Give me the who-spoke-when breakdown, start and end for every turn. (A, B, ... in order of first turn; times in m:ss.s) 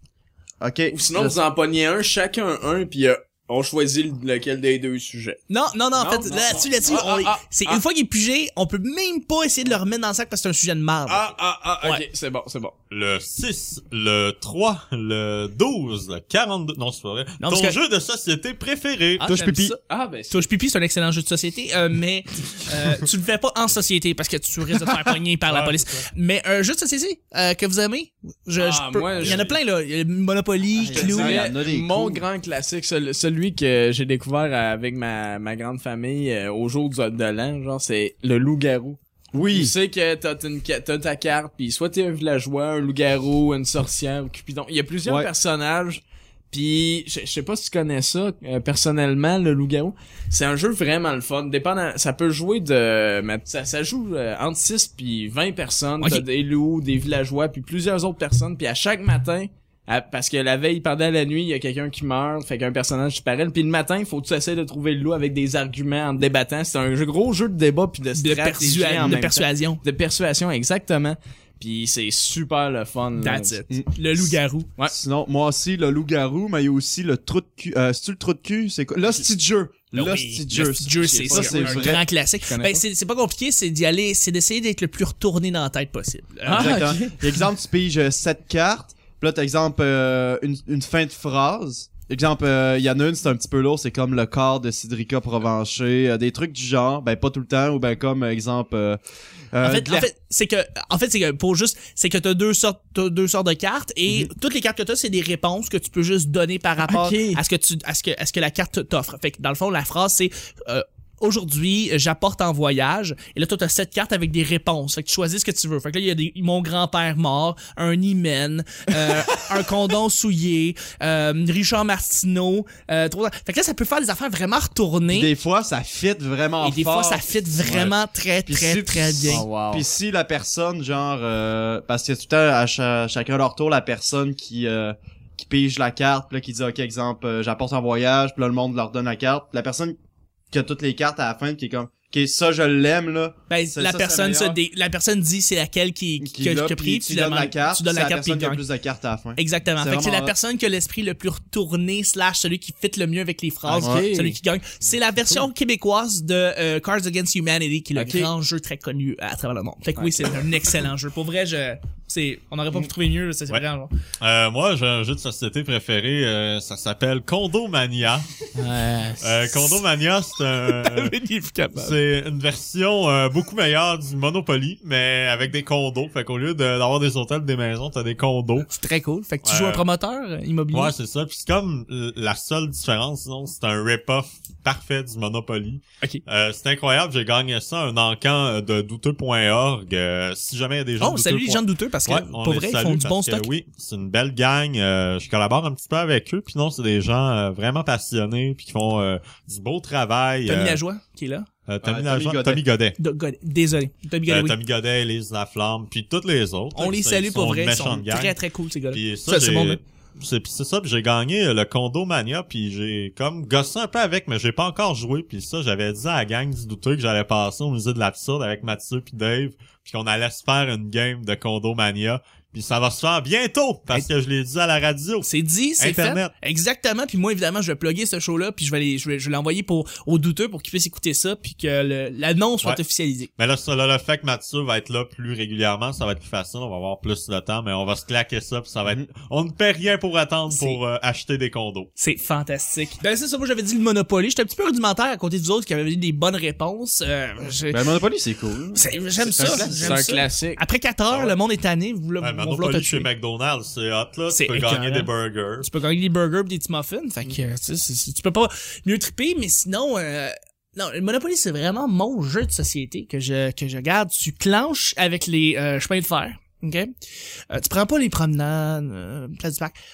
0:00.6-0:01.4 A
0:00.9-0:05.4 B
0:05.5-0:12.0 C
0:06.0-0:07.8 B
0:11.1-0:12.7 B
0:12.9-0:19.3 D
0:17.4-0:17.8 C
0:19.2-0:19.8 A
0:19.2-0:19.8 C
0:19.9-0:20.4 B
0:20.3-0:31.5 C
0:25.5-0:26.1 D
0:28.6-0:29.6 B
0:29.2-0:29.4 D
0:30.8-0:32.2 A
0:30.9-1:13.6 B
0:39.3-0:39.7 A
0:45.0-0:45.3 A
0:56.0-0:56.2 C
1:08.1-1:09.8 C
1:13.2-1:14.7 C
1:13.7-1:14.3 A
1:14.9-1:22.0 A
1:19.9-1:26.8 C
1:20.9-1:22.8 B
1:26.4-1:27.4 B
1:26.4-1:39.0 A
1:39.5-1:40.1 A
1:39.6-2:05.3 C
1:46.8-1:47.4 B
2:05.1-2:07.9 A
2:06.6-2:09.4 C
2:08.4-2:19.9 A
2:09.3-2:09.8 B
2:20.5-2:24.6 A
2:23.5-2:28.6 C
2:26.2-2:30.3 A
2:29.4-2:43.9 C
2:33.6-2:34.4 B
2:33.8-2:34.1 A
2:37.9-2:38.3 B
2:40.0-2:40.2 B
2:44.2-2:48.3 D
2:48.6-2:49.3 B
2:49.2-2:51.2 D
2:50.6-2:52.0 C
2:51.7-2:58.7 D
2:58.7-3:00.9 C
2:59.4-2:59.8 D
3:00.7-3:20.8 D
3:11.0-3:13.5 C
3:20.4-3:21.5 C
3:21.7-3:23.0 D
3:21.8-3:22.6 A
3:23.0-3:24.6 C
3:24.3-3:28.4 D
3:26.8-3:29.8 C
3:28.9-3:45.3 D
3:45.2-3:53.3 C
3:45.8-3:46.3 D
3:53.4-4:01.9 D
4:00.5-4:00.8 C
4:02.0-4:07.9 C
4:07.7-4:10.0 A
4:08.7-4:13.1 C
4:09.2-4:10.6 B
4:11.1-4:11.3 D
4:12.2-4:15.7 D
4:14.3-4:26.9 C
4:27.5-4:29.8 C